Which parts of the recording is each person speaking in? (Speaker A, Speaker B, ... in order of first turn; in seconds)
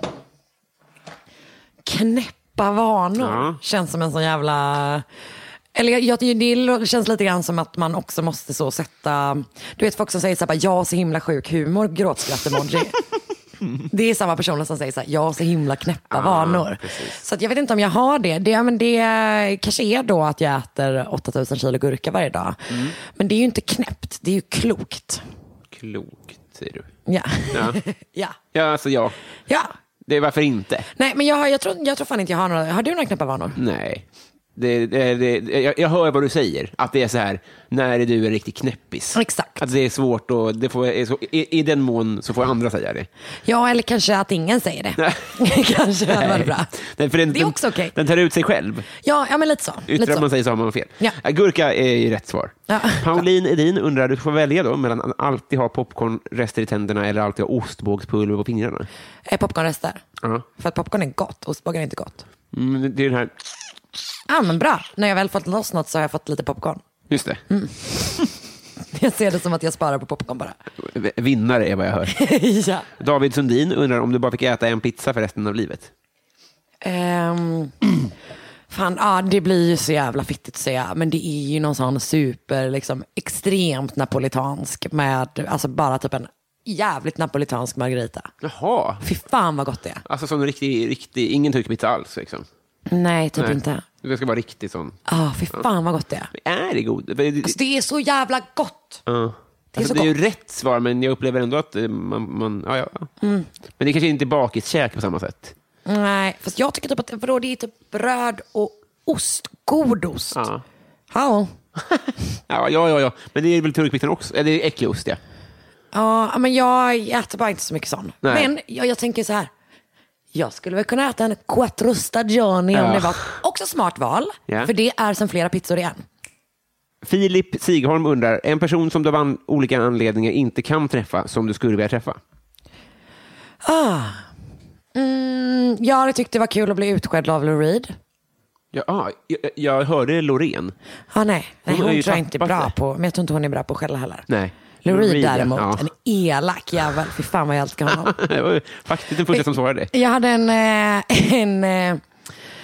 Speaker A: 1.8-5.0, 5.7-13.0, 13.9-25.2, 27.1-28.4, 30.9-33.5, 39.1-39.6, 43.5-46.7, 47.3-48.0, 49.0-50.2, 52.7-53.2, 59.3-60.0, 60.6-62.2, 64.3-66.8, 67.5-67.9, 68.9-70.6, 72.1-72.9, 76.8-77.7, 78.7-88.3, 89.0-90.0, 92.9-93.8, 95.1-96.3, 97.4-99.0, 99.7-100.1, 103.2-103.5, 105.9-110.4, 111.1-111.5, 115.9-119.5, 120.3-126.0, 133.6-134.3, 134.9-137.9, 141.1-144.3, 144.8-148.1, 149.3-152.0
Speaker B: 3.2-3.6, 16.1-17.2, 25.7-26.9, 27.5-27.8, 28.5-29.1, 30.1-30.9, 33.5-34.0, 34.5-43.1, 45.0-45.3, 46.1-48.9, 49.9-58.9, 62.5-63.3, 67.1-67.4, 70.8-72.1, 73.0-75.9, 88.4-89.0, 90.1-92.5, 93.4-95.0, 96.3-97.6, 99.1-103.1, 103.8-105.5, 110.3-110.6, 112.5-115.2, 118.2-118.5, 122.7-123.3, 127.0-132.2, 138.7-140.7, 141.7-142.7, 144.3-145.9, 148.1-149.9